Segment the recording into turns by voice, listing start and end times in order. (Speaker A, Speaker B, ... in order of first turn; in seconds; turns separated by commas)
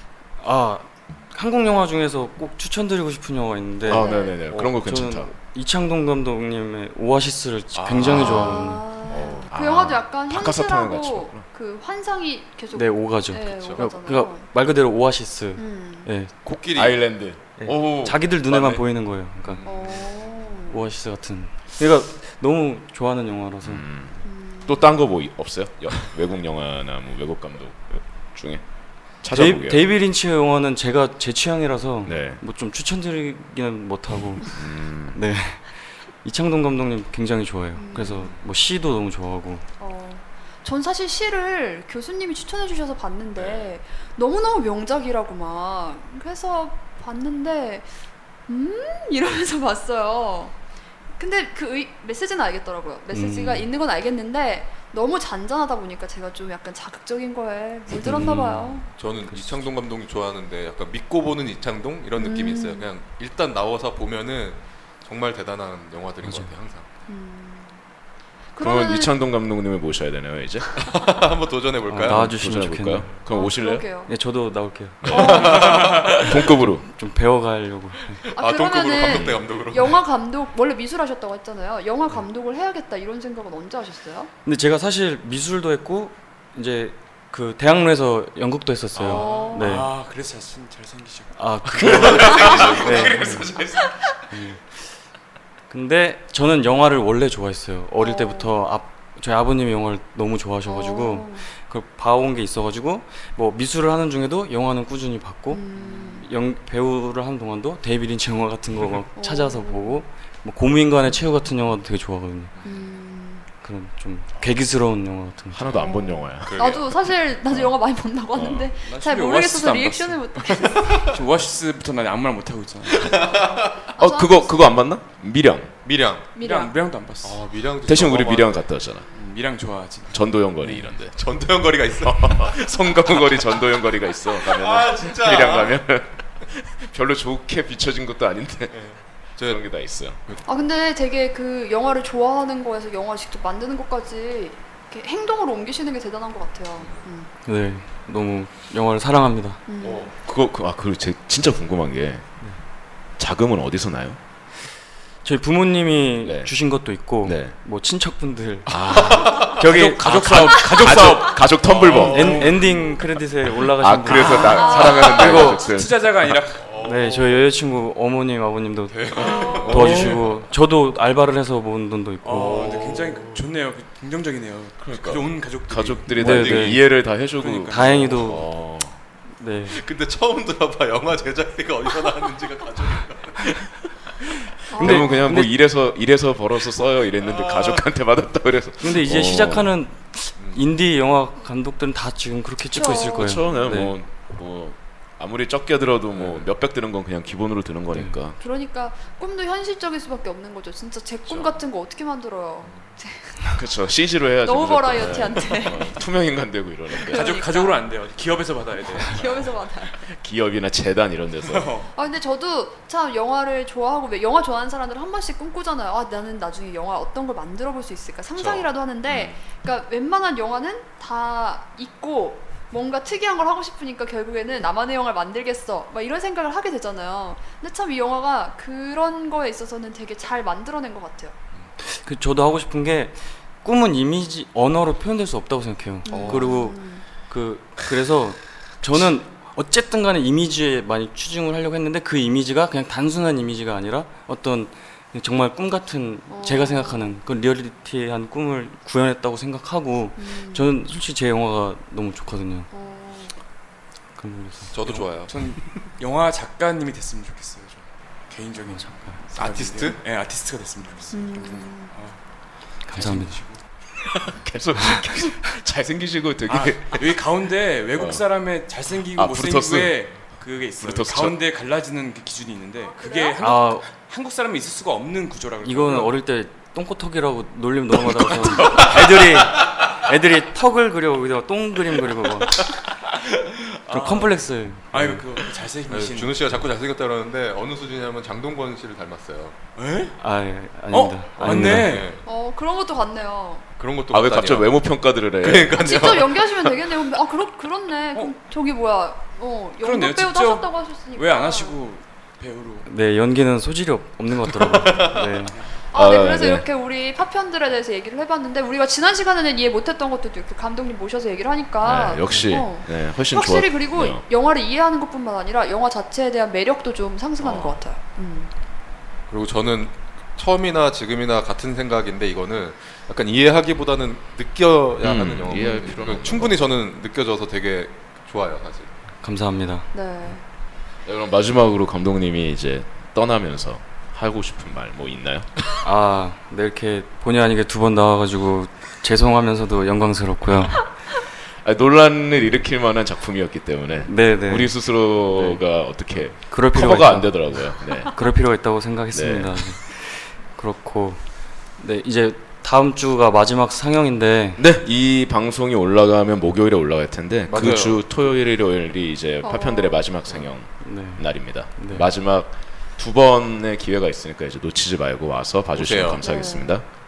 Speaker A: 0.4-8.8, Speaker B: 3.9-5.3, Speaker C: 3.9-4.4, Speaker D: 4.5-4.8, Speaker D: 7.8-8.5, Speaker B: 8.0-11.4, Speaker C: 8.3-14.4, Speaker A: 12.7-16.3, Speaker D: 13.5-13.8, Speaker C: 15.6-16.1, Speaker D: 16.4-17.1, Speaker B: 16.7-18.2, Speaker A: 17.6-19.6, Speaker D: 18.5-18.8, Speaker D: 19.4-20.1, Speaker C: 19.6-20.8, Speaker A: 20.7-23.9, Speaker B: 23.6-28.6, Speaker C: 24.2-24.9, Speaker B: 29.2-29.9, Speaker A: 29.3-39.6, Speaker B: 32.0-32.4, Speaker B: 34.5-35.2, Speaker C: 37.8-38.4, Speaker C: 39.8-47.9, Speaker D: 43.4-43.7, Speaker C: 48.5-50.6, Speaker C: 51.2-58.9, Speaker A: 53.1-53.7, Speaker A: 58.0-58.8, Speaker D: 59.0-66.9, Speaker C: 62.2-62.9, Speaker C: 67.1-67.8, Speaker C: 68.5-69.1, Speaker B: 68.6-70.8, Speaker D: 70.8-72.3, Speaker A: 71.9-73.1, Speaker B: 72.0-73.9, Speaker C: 73.3-74.1, Speaker A: 74.1-75.6, Speaker D: 75.0-76.6, Speaker B: 75.0-76.9, Speaker C: 75.1-76.0, Speaker E: 75.5-76.2, Speaker A: 76.2-78.2, Speaker D: 78.2-80.0, Speaker C: 78.3-84.3, Speaker B: 79.0-79.4, Speaker A: 84.5-89.9, Speaker C: 89.0-89.8, Speaker E: 89.0-93.9, Speaker A: 91.4-93.5, Speaker D: 91.8-93.9, Speaker A: 94.3-94.8, Speaker A: 95.7-112.5, Speaker C: 98.0-98.6, Speaker C: 100.7-101.5, Speaker C: 105.5-106.3, Speaker C: 109.2-110.0, Speaker D: 112.6-112.8, Speaker C: 112.6-113.5, Speaker A: 113.6-115.9, Speaker B: 115.5-116.6, Speaker C: 115.8-120.8, Speaker D: 116.4-117.0, Speaker B: 117.5-117.8, Speaker B: 118.3-118.7, Speaker E: 118.8-123.2, Speaker D: 120.7-121.2, Speaker D: 122.9-123.9, Speaker C: 124.0-124.8, Speaker B: 124.0-125.8, Speaker D: 125.8-126.3, Speaker C: 126.4-126.8, Speaker E: 126.4-127.4, Speaker D: 127.2-128.6, Speaker B: 127.8-129.1, Speaker E: 129.1-130.3, Speaker B: 130.1-131.2, Speaker D: 130.6-132.7, Speaker B: 132.0-138.8, Speaker D: 134.4-135.8, Speaker D: 138.7-139.6, Speaker B: 139.4-140.2, Speaker C: 140.5-147.3, Speaker D: 146.8-147.1, Speaker A: 147.4-149.6, Speaker C: 149.7-150.1, Speaker D: 149.8-150.1, Speaker B: 150.2-152.3, Speaker B: 153.2-154.2, Speaker A: 155.2-161.1, Speaker B: 156.2-156.5, Speaker B: 157.2-157.5, Speaker B: 158.7-162.6, Speaker D: 158.9-159.6, Speaker E: 159.6-162.8, Speaker D: 161.5-162.5, Speaker A: 162.1-165.7, Speaker C: 162.7-163.0, Speaker B: 163.8-166.4, Speaker C: 164.1-165.4, Speaker E: 164.2-167.1, Speaker D: 166.6-167.3, Speaker A: 166.8-172.7, Speaker D: 168.9-170.4, Speaker C: 169.2-169.7, Speaker B: 169.4-170.3, Speaker E: 172.2-176.6, Speaker D: 172.3-173.4, Speaker B: 174.8-179.0, Speaker A: 176.1-176.8, Speaker D: 176.2-176.7, Speaker E: 177.3-178.2, Speaker A: 177.7-178.5, Speaker A: 179.4-179.8, Speaker D: 179.7-183.6, Speaker C: 184.7-185.3, Speaker B: 184.7-189.8, Speaker A: 184.8-185.5, Speaker D: 187.2-187.9, Speaker A: 188.8-193.9, Speaker D: 190.4-190.6, Speaker C: 192.7-193.7, Speaker B: 192.8-198.4, Speaker D: 196.1-196.5, Speaker A: 197.9-198.2, Speaker C: 198.4-203.6, Speaker D: 202.7-202.9, Speaker B: 203.6-207.4, Speaker C: 204.4-206.0, Speaker C: 207.0-207.9, Speaker E: 207.0-209.6, Speaker C: 208.9-210.1, Speaker B: 210.1-211.7, Speaker E: 211.4-211.9, Speaker C: 211.9-231.3, Speaker D: 218.4-219.4, Speaker A: 231.8-252.7, Speaker C: 236.1-237.1, Speaker D: 236.1-236.5, Speaker C: 246.3-247.0, Speaker C: 250.2-250.7, Speaker C: 252.7-253.3, Speaker A: 254.2-254.7, Speaker D: 254.7-255.3, Speaker E: 254.8-262.2, Speaker A: 258.8-259.2, Speaker D: 259.3-260.0, Speaker C: 261.1-261.9, Speaker A: 262.9-263.4, Speaker E: 262.9-263.6, Speaker B: 264.1-267.2, Speaker E: 266.5-276.1, Speaker B: 267.9-268.2, Speaker B: 269.1-270.0, Speaker B: 270.8-271.4, Speaker C: 273.0-273.4, Speaker A: 273.4-273.9, Speaker A: 275.6-282.7, Speaker E: 283.4-286.4, Speaker A: 283.9-285.2, Speaker D: 285.9-289.6, Speaker E: 289.8-290.2, Speaker A: 290.2-292.1, Speaker E: 290.9-292.2, Speaker D: 291.6-292.2, Speaker C: 292.2-293.7, Speaker D: 293.8-294.8, Speaker B: 294.1-295.8, Speaker D: 295.4-297.1, Speaker C: 295.8-301.8, Speaker E: 299.8-302.9, Speaker A: 302.9-305.6, Speaker D: 304.5-305.4, Speaker C: 305.9-318.5, Speaker B: 305.9-306.7, Speaker B: 311.8-314.2, Speaker D: 317.4-317.8, Speaker D: 319.3-328.9, Speaker B: 325.0-326.6, Speaker C: 325.5-326.2, Speaker A: 329.2-329.9, Speaker C: 329.9-330.4, Speaker B: 331.1-335.6, Speaker A: 335.8-340.9, Speaker B: 341.6-348.2, Speaker A: 344.1-345.6, Speaker A: 346.5-351.2, Speaker B: 349.1-349.7, Speaker A: 351.8-354.6, Speaker B: 354.6-366.9, Speaker D: 357.5-358.0, Speaker C: 359.4-360.1, Speaker A: 360.8-362.1, Speaker D: 365.8-366.2, Speaker C: 366.2-366.8